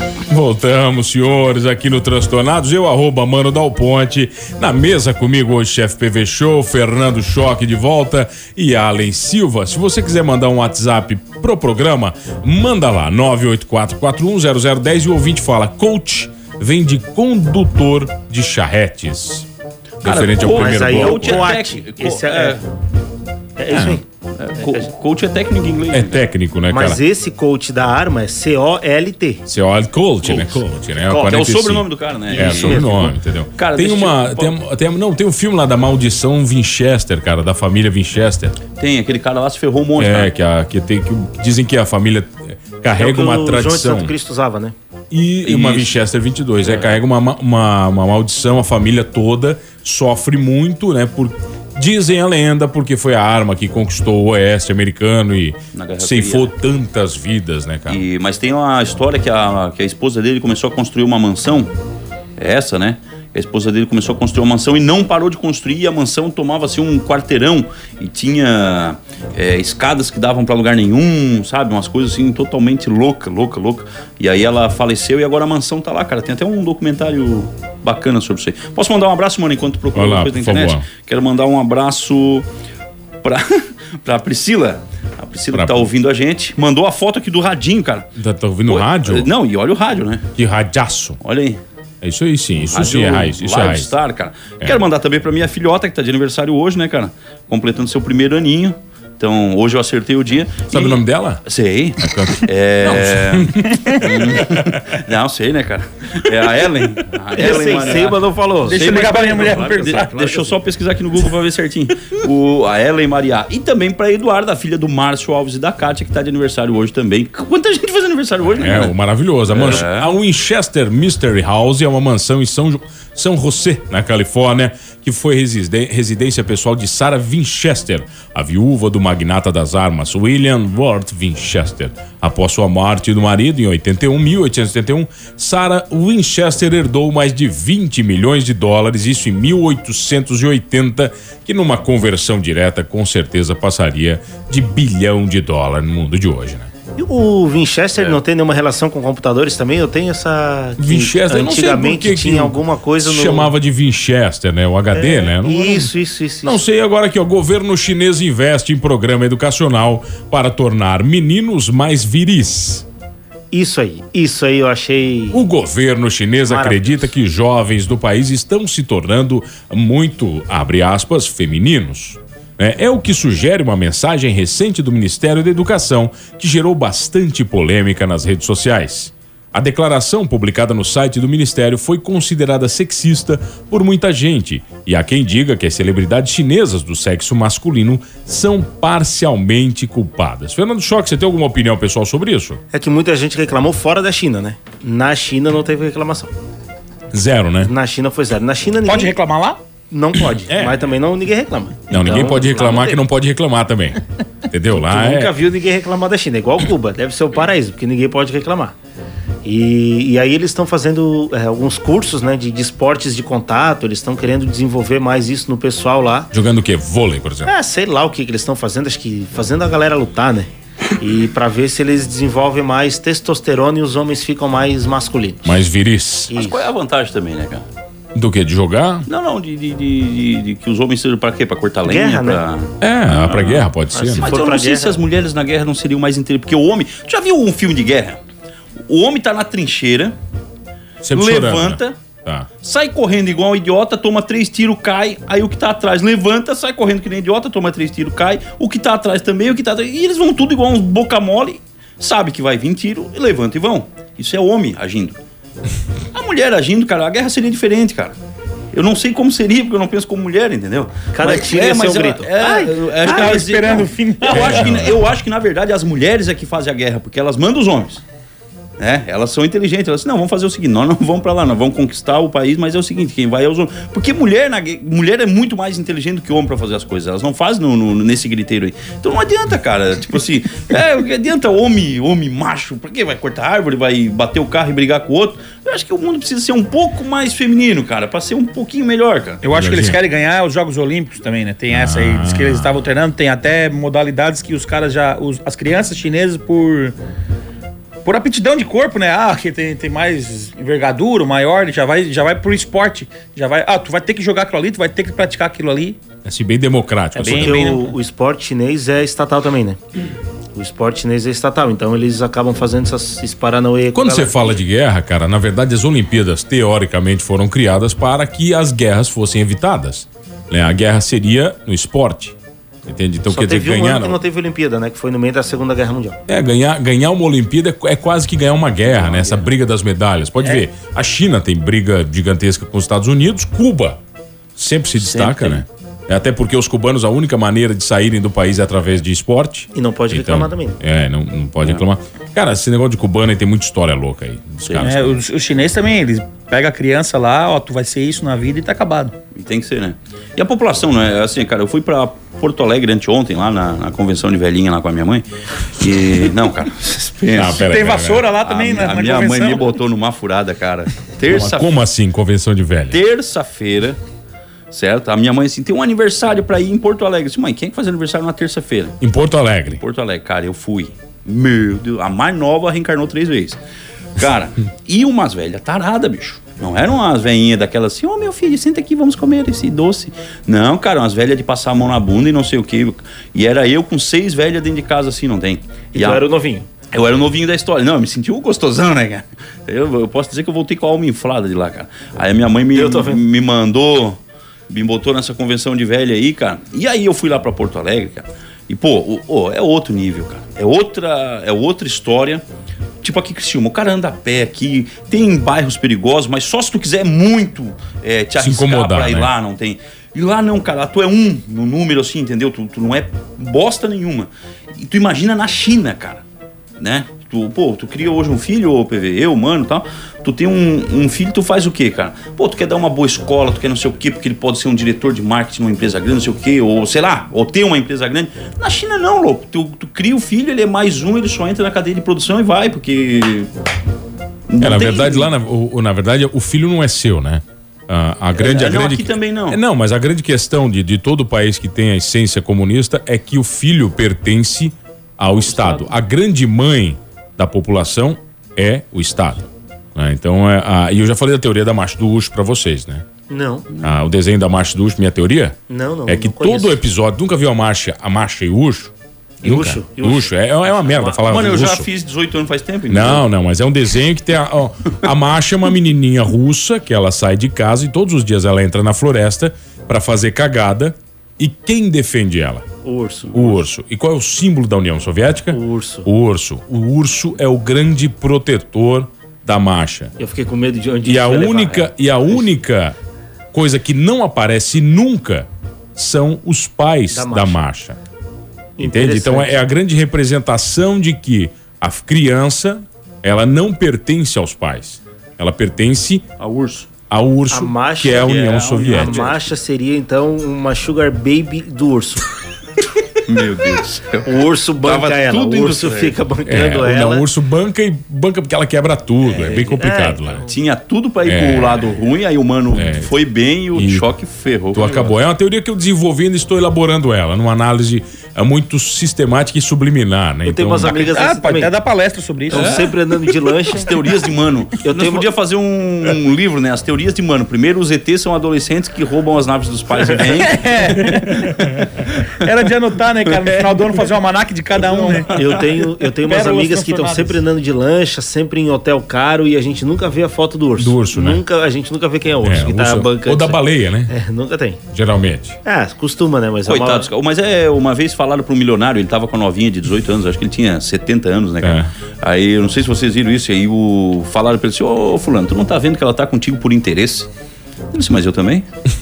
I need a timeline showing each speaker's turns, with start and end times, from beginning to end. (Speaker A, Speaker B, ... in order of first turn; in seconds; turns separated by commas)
Speaker A: 0.3-19.4, Speaker A: 20.0-21.5, Speaker B: 20.0-22.6, Speaker C: 20.5-22.6, Speaker C: 23.6-24.0, Speaker A: 23.7-24.0, Speaker B: 24.4-26.2, Speaker C: 24.6-24.9, Speaker A: 25.9-27.0, Speaker C: 26.7-29.4, Speaker A: 29.4-38.6, Speaker C: 31.0-31.3, Speaker B: 31.2-34.5, Speaker C: 32.3-33.1, Speaker B: 38.8-40.3, Speaker A: 40.0-44.1, Speaker C: 42.9-44.7, Speaker A: 45.1-58.0, Speaker B: 45.4-45.9, Speaker B: 46.6-47.0, Speaker B: 55.7-56.5, Speaker B: 57.9-61.7, Speaker B: 62.4-82.5, Speaker A: 79.9-80.8, Speaker B: 83.2-88.1, Speaker A: 85.5-85.9, Speaker A: 88.2-89.3, Speaker B: 88.7-90.2, Speaker A: 90.4-91.2, Speaker B: 91.2-91.6, Speaker A: 92.0-93.9, Speaker B: 92.7-118.9, Speaker A: 100.7-101.4, Speaker A: 102.0-104.8, Speaker C: 107.3-110.5, Speaker D: 108.7-110.2, Speaker A: 118.4-146.7, Speaker B: 119.5-120.1, Speaker C: 146.9-153.5, Speaker A: 150.8-162.8, Speaker C: 154.9-156.6, Speaker C: 163.5-165.4, Speaker A: 165.3-192.6, Speaker C: 166.4-167.1, Speaker C: 192.7-196.3, Speaker A: 197.1-197.7, Speaker C: 197.6-199.1, Speaker D: 198.8-199.6, Speaker C: 199.9-203.0, Speaker A: 200.4-200.9, Speaker A: 201.9-205.3, Speaker C: 204.7-208.7, Speaker C: 209.4-216.3, Speaker A: 216.3-217.5, Speaker C: 217.4-225.6, Speaker A: 225.4-226.3, Speaker C: 226.3-226.7, Speaker B: 226.3-227.6, Speaker A: 228.1-229.1, Speaker B: 229.1-238.2, Speaker C: 231.8-232.4, Speaker A: 232.8-234.3, Speaker C: 233.9-235.0, Speaker B: 238.9-240.1, Speaker A: 241.0-242.5, Speaker B: 241.1-241.9, Speaker B: 242.6-255.2, Speaker B: 256.1-258.1, Speaker B: 258.7-268.0, Speaker C: 261.1-262.6, Speaker D: 262.4-264.6, Speaker A: 264.3-265.0, Speaker B: 268.8-289.4, Speaker D: 289.4-296.9, Speaker A: 289.5-290.0, Speaker A: 291.7-292.8, Speaker D: 298.0-306.0, Speaker A: 306.2-307.6, Speaker D: 307.1-307.9, Speaker C: 307.3-309.8, Speaker C: 310.5-314.6, Speaker A: 313.9-324.2, Speaker C: 323.3-326.2, Speaker A: 326.3-334.0, Speaker B: 328.9-329.5, Speaker A: 334.6-345.2, Speaker B: 335.0-335.6, Speaker C: 339.7-340.8, Speaker D: 344.8-349.1, Speaker B: 349.3-357.7, Speaker A: 357.3-358.2, Speaker D: 357.6-359.6, Speaker B: 358.4-361.7, Speaker A: 361.3-363.0, Speaker B: 362.9-364.0, Speaker B: 364.7-369.0, Speaker A: 369.0-369.8, Speaker B: 369.8-373.6, Speaker B: 374.2-386.2, Speaker C: 385.9-386.7, Speaker B: 386.9-402.4, Speaker C: 392.7-393.2, Speaker B: 403.0-416.2, Speaker A: 408.4-409.3, Speaker B: 416.8-433.5, Speaker B: 434.5-435.3, Speaker A: 434.6-453.0, Speaker B: 438.3-439.6, Speaker B: 445.5-445.9, Speaker C: 453.3-453.7, Speaker A: 453.8-458.9, Speaker C: 455.7-456.7, Speaker C: 459.4-461.5, Speaker A: 459.4-461.9, Speaker B: 461.2-463.2, Speaker A: 462.9-472.6, Speaker C: 472.8-473.6, Speaker A: 473.3-480.1, Speaker C: 475.5-476.1, Speaker C: 480.2-482.5, Speaker A: 481.0-482.9, Speaker A: 483.5-488.0, Speaker C: 487.1-487.6, Speaker A: 488.8-496.3, Speaker C: 488.8-489.5, Speaker B: 496.4-496.9, Speaker A: 497.1-499.3, Speaker C: 497.5-502.2, Speaker B: 498.1-499.4, Speaker B: 503.2-506.2, Speaker C: 504.2-507.2, Speaker A: 506.4-510.4, Speaker C: 509.2-510.5, Speaker B: 510.5-515.1, Speaker A: 511.2-511.9, Speaker A: 512.7-513.1, Speaker A: 513.7-514.0, Speaker A: 514.7-521.0, Speaker C: 520.4-521.7, Speaker D: 520.8-522.7, Speaker C: 522.5-523.9, Speaker B: 522.5-532.3, Speaker C: 524.8-525.3, Speaker D: 530.4-531.5, Speaker D: 532.4-535.3, Speaker B: 534.9-535.9, Speaker C: 535.3-544.8, Speaker D: 536.2-537.4, Speaker A: 540.8-541.4, Speaker A: 542.4-544.1, Speaker A: 544.9-545.6, Speaker C: 545.6-547.1, Speaker B: 546.6-557.3, Speaker A: 551.6-551.9, Speaker B: 557.9-558.6